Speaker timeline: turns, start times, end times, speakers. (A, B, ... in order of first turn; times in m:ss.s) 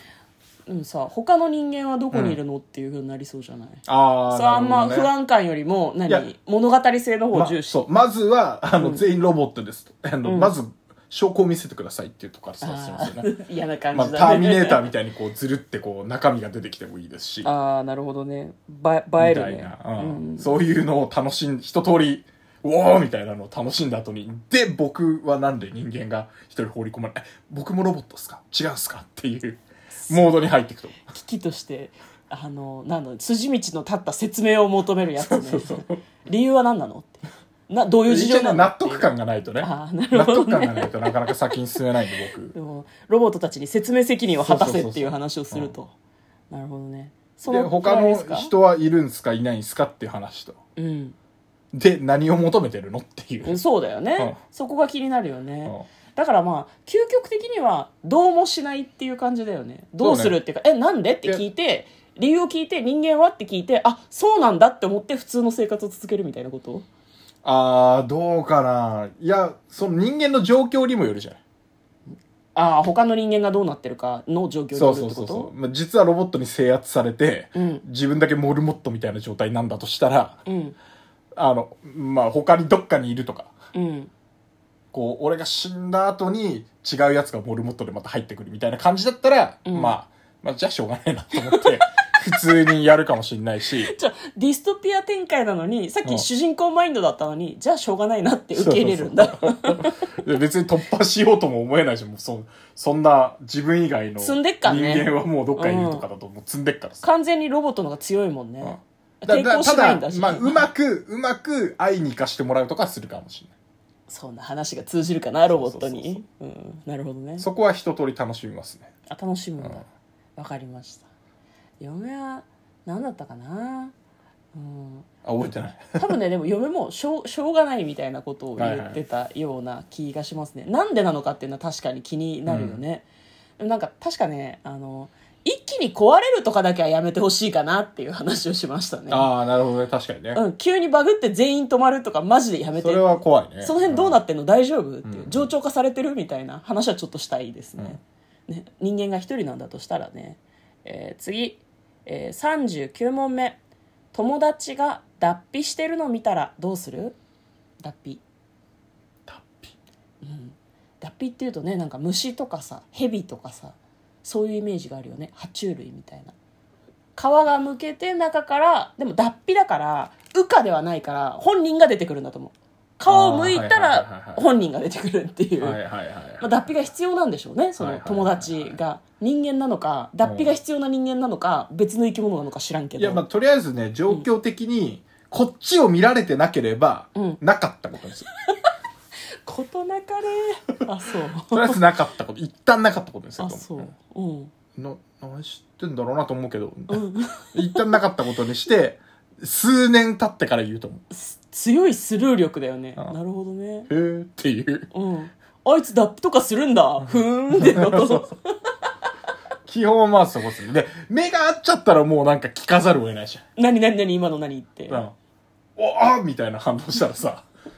0:00.7-0:07.8 A
0:02.1-0:02.4 B
0:03.8-0:05.1 B
0:07.3-0:13.3 B
0:08.8-0:09.0 A
0:10.2-0:10.5 A
0:12.6-0:14.9 A
0:13.9-0:17.5 B
0:17.4-0:20.6 A
0:19.2-0:31.0 B
0:30.0-0:30.4 A
0:31.1-0:39.1 A
0:35.2-0:36.0 B
0:38.0-0:42.5 B
0:39.6-0:41.3 A
0:42.5-0:45.9 A
0:44.4-0:45.7 B
0:46.5-0:48.5 A
0:47.4-0:50.6 B
0:50.8-0:51.2 A
0:51.7-0:53.6 B
0:53.4-1:06.9 A
1:00.0-1:00.4 B
1:07.4-1:11.4 B
1:12.5-1:15.5 A
1:14.7-1:20.4 B
1:17.5-1:17.8 A
1:20.4-1:20.8 A
1:21.4-1:23.5 B
1:23.7-1:24.1 A
1:24.9-1:33.9 B
1:29.6-1:30.0 A
1:33.8-1:40.1 A
1:38.5-1:47.0 B
1:44.2-1:46.0 A
1:47.0-1:50.7 A
1:48.6-1:53.5 B
1:54.1-1:57.4 A
1:55.5-1:56.2 B
1:57.4-1:58.9 B
1:59.1-1:59.8 A
2:00.4-2:01.0 A
2:01.8-2:03.9 A
2:04.5-2:05.1 A
2:05.2-2:06.2 B
2:06.0-2:13.0 A
2:08.6-2:09.0 B
2:12.5-2:12.8 B
2:13.6-2:19.3 A
2:19.1-2:20.4 B
2:20.3-2:23.1 A
2:22.7-2:24.2 B
2:23.6-2:33.6 A
2:25.0-2:25.5 B
2:34.1-2:37.2 A
2:37.8-2:38.2 A
2:39.3-2:39.7 B
2:40.2-2:46.3 A
2:47.2-2:55.8 A
2:53.1-2:54.4 B
2:55.6-2:56.5 B
2:56.4-3:03.2 A
2:57.8-2:58.8 B
3:00.2-3:00.5 B
3:03.0-3:08.3 B
3:07.1-3:07.4 A
3:09.4-3:11.8 A
3:11.5-3:13.8 B
3:13.4-3:14.5 A
3:14.8-3:21.0 B
3:16.9-3:18.0 A
3:21.1-3:23.9 A
3:23.9-3:24.9 B
3:24.9-3:28.7 A
3:27.5-3:28.3 B
3:29.6-3:33.4 B
3:33.6-3:35.0 A
3:35.8-3:37.4 B